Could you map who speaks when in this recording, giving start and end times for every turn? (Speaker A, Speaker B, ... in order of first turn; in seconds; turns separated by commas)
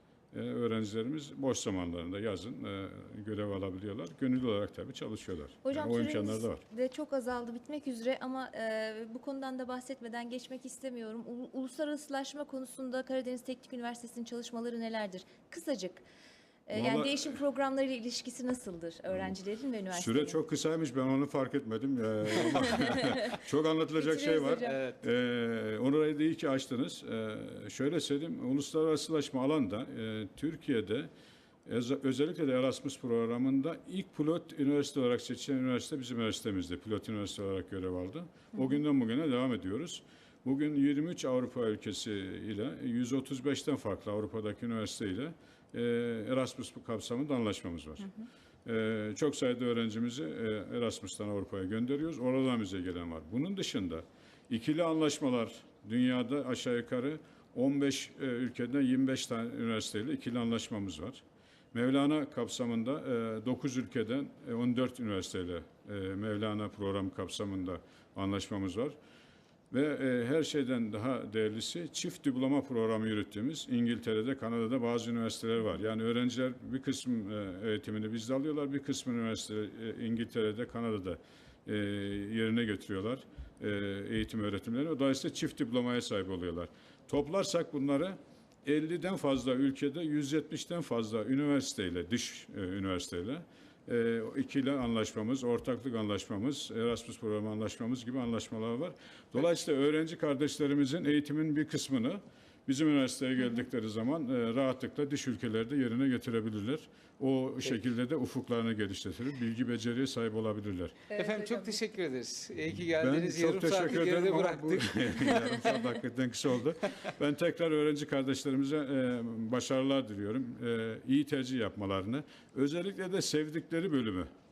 Speaker A: 0.3-6.6, Speaker B: 5.6-16.1, Speaker B: 16.7-20.4, Speaker A: 16.7-17.4, Speaker A: 19.1-19.4, Speaker A: 19.9-31.1, Speaker B: 22.8-23.2, Speaker B: 24.0-24.8, Speaker C: 24.7-25.0, Speaker A: 31.6-48.1, Speaker A: 48.6-61.2, Speaker A: 61.7-68.9, Speaker A: 69.7-111.0, Speaker B: 111.1-111.8, Speaker C: 111.2-115.4, Speaker A: 113.0-124.3